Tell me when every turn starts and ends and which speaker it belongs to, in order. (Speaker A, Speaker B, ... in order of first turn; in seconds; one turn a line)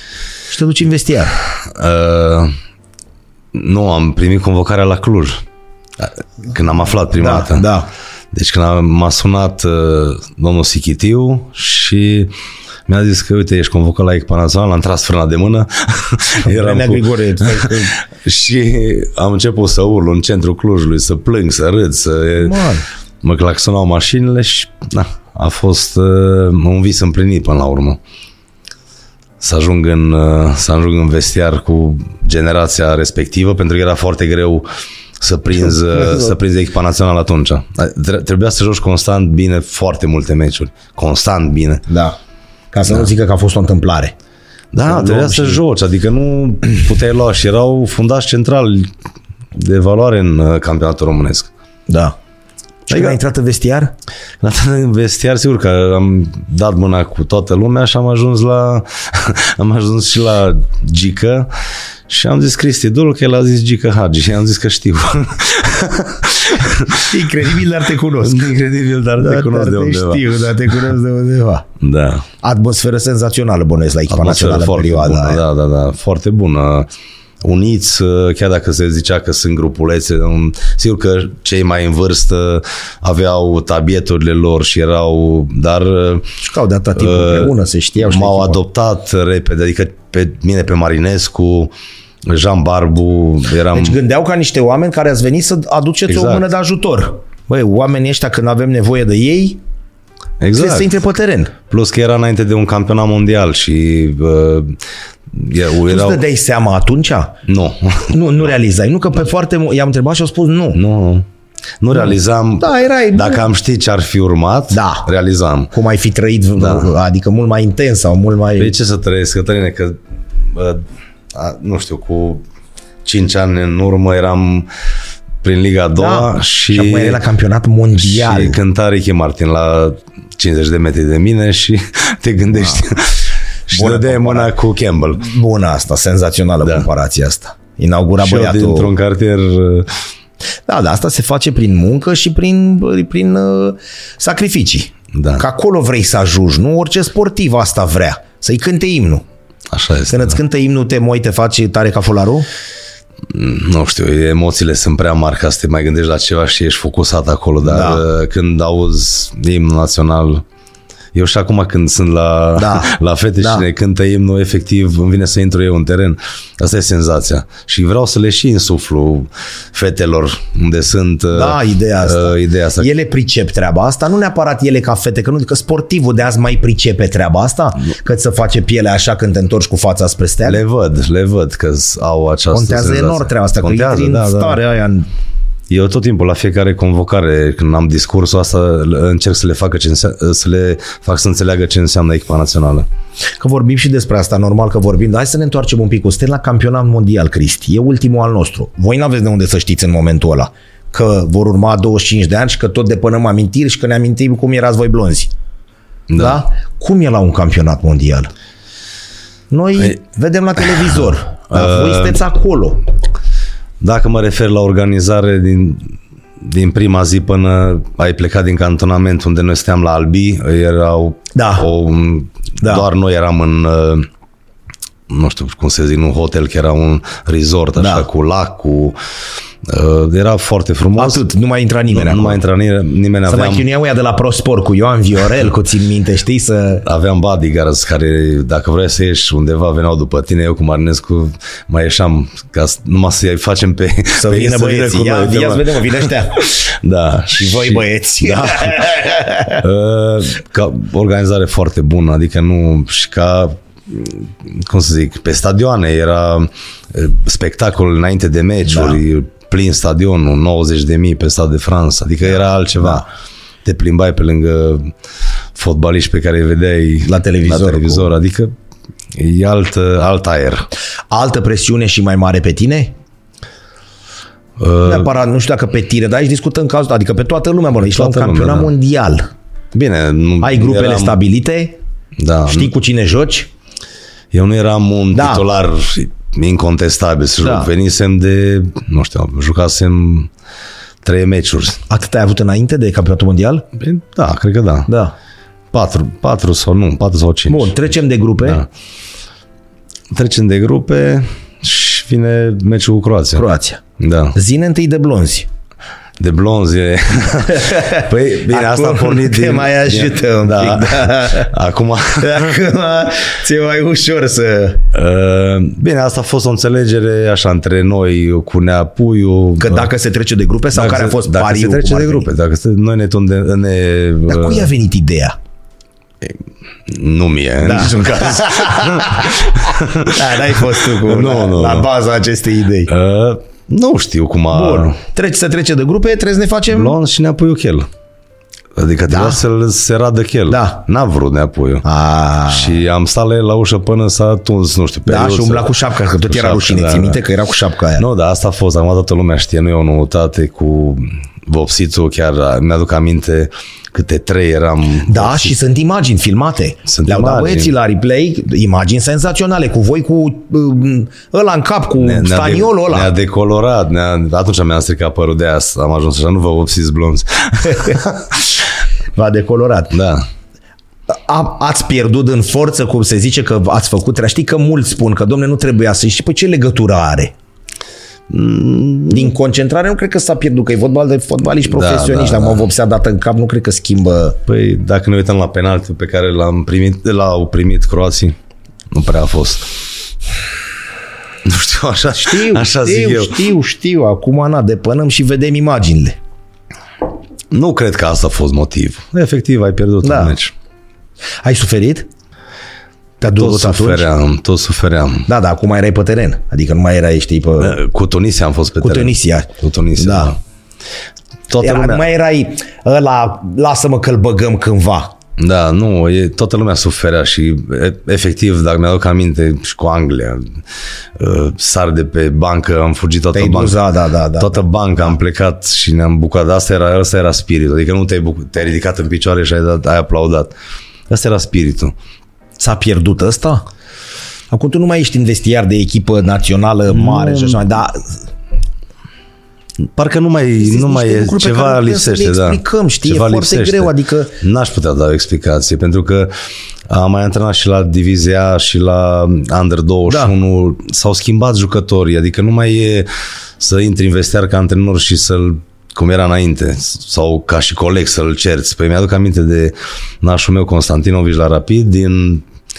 Speaker A: 0.5-1.4
Speaker B: 1.5-2.5
Speaker B: 3.5-5.4
Speaker B: 6.0-7.7
Speaker A: 7.1-7.9
Speaker B: 8.3-12.3
Speaker B: 12.9-22.6
Speaker A: 16.4-18.0
Speaker A: 22.4-22.9
Speaker B: 23.2-28.0
Speaker B: 29.4-34.6
Speaker B: 35.2-41.9
Speaker A: 35.9-36.3
Speaker A: 41.9-42.2
Speaker A: 42.7-44.1
Speaker B: 44.7-48.9
Speaker A: 44.8-45.6
Speaker B: 49.5-51.5
Speaker A: 51.9-52.1
Speaker A: 52.9-53.9
Speaker B: 52.9-53.2
Speaker B: 54.4-61.5
Speaker B: 62.1-67.2
Speaker A: 66.9-68.5
Speaker B: 68.2-70.2
Speaker A: 69.2-71.7
Speaker B: 71.8-72.2
Speaker A: 72.4-75.4
Speaker B: 74.1-76.9
Speaker B: 77.4-86.3
Speaker A: 86.4-88.6
Speaker B: 87.0-91.7
Speaker B: 92.2-94.0
Speaker A: 93.7-99.6
Speaker B: 96.1-96.4
Speaker B: 100.4-100.9
Speaker A: 100.5-101.5
Speaker B: 101.7-106.2
Speaker A: 105.8-107.4
Speaker B: 107.5-108.1
Speaker A: 108.1-110.8
Speaker B: 110.7-111.2
Speaker B: 111.8-115.7
Speaker A: 111.9-113.5
Speaker A: 114.7-115.1
Speaker A: 115.7-118.7
Speaker B: 116.6-116.9
Speaker B: 118.6-122.4
Speaker B: 123.0-124.7
Speaker B: 125.4-127.2
Speaker A: 126.0-128.6
Speaker B: 128.0-135.2
Speaker A: 132.6-132.8
Speaker A: 133.7-134.5
Speaker A: 135.1-138.9
Speaker B: 138.2-139.9
Speaker A: 140.7-149.2
Speaker B: 145.1-145.4
Speaker B: 149.7-150.4
Speaker A: 150.1-152.4
Speaker B: 153.3-160.4
Speaker A: 157.6-158.0
Speaker B: 161.1-172.9
Speaker A: 162.6-163.7
Speaker A: 171.3-180.6
Speaker B: 180.4-184.6
Speaker A: 182.5-185.1
Speaker B: 185.7-192.8
Speaker A: 193.4-205.3
Speaker B: 206.1-206.4
Speaker A: 206.1-208.3
Speaker A: 209.5-212.8
Speaker B: 210.7-212.2
Speaker B: 213.8-224.1
Speaker A: 221.3-221.7
Speaker A: 222.6-222.9
Speaker B: 225.1-228.9
Speaker A: 227.8-228.1
Speaker B: 229.6-231.2
Speaker A: 231.0-232.4
Speaker B: 231.9-233.6
Speaker A: 233.3-236.8
Speaker B: 236.8-249.0
Speaker A: 244.2-246.5
Speaker A: 247.3-249.6
Speaker B: 249.6-263.1
Speaker A: 258.7-259.0
Speaker B: 263.6-264.9
Speaker B: 265.5-268.5
Speaker A: 267.0-268.1
Speaker B: 269.1-270.7
Speaker A: 271.1-272.9
Speaker B: 274.6-275.1
Speaker A: 274.8-279.3
Speaker B: 277.8-278.7
Speaker B: 279.7-281.2
Speaker A: 280.4-281.8
Speaker B: 282.2-282.7
Speaker A: 282.4-283.5
Speaker B: 284.3-290.3
Speaker A: 285.1-285.4
Speaker A: 287.4-287.7
Speaker B: 291.0-291.8
Speaker A: 291.9-293.6
Speaker B: 293.8-294.9
Speaker A: 294.9-295.1
Speaker B: 295.7-297.8
Speaker A: 297.5-298.6
Speaker B: 300.1-303.4
Speaker A: 303.4-303.8
Speaker B: 304.0-304.4
Speaker A: 304.3-305.5
Speaker B: 306.2-312.6
Speaker A: 307.5-311.5
Speaker A: 312.2-314.9
Speaker B: 314.9-319.9
Speaker A: 319.6-322.3
Speaker B: 320.7-324.7
Speaker A: 324.3-325.4
Speaker B: 326.2-331.9
Speaker A: 327.6-332.9
Speaker B: 332.9-334.9
Speaker A: 334.5-336.9
Speaker B: 336.7-337.9
Speaker B: 338.7-341.8
Speaker A: 339.1-339.4
Speaker A: 340.5-340.8
Speaker A: 341.8-342.8
Speaker B: 342.5-345.7
Speaker A: 345.1-348.0
Speaker B: 346.2-347.2
Speaker B: 348.0-355.5
Speaker A: 355.1-363.1
Speaker B: 356.9-357.7
Speaker B: 362.0-368.4
Speaker A: 367.7-368.0
Speaker A: 369.1-370.0
Speaker B: 369.9-370.3
Speaker A: 371.1-377.3
Speaker B: 378.3-379.3
Speaker A: 379.1-384.4
Speaker B: 381.7-382.6
Speaker B: 384.5-388.4
Speaker B: 388.9-389.7
Speaker B: 391.4-393.4
Speaker A: 392.1-396.2
Speaker B: 397.5-400.5
Speaker A: 400.0-400.4
Speaker A: 401.4-402.1
Speaker A: 403.2-404.1
Speaker B: 403.2-405.3
Speaker A: 405.3-407.8
Speaker B: 407.6-410.4
Speaker A: 408.8-410.3
Speaker B: 411.5-412.0
Speaker A: 411.6-415.1
Speaker B: 415.4-420.6
Speaker B: 421.1-423.8
Speaker A: 423.3-425.1
Speaker B: 424.4-430.5
Speaker B: 431.1-431.9
Speaker A: 432.6-433.6
Speaker A: 434.5-438.2
Speaker B: 436.9-437.6
Speaker B: 439.8-446.3
Speaker A: 440.6-444.3
Speaker B: 446.9-462.4
Speaker A: 450.1-450.3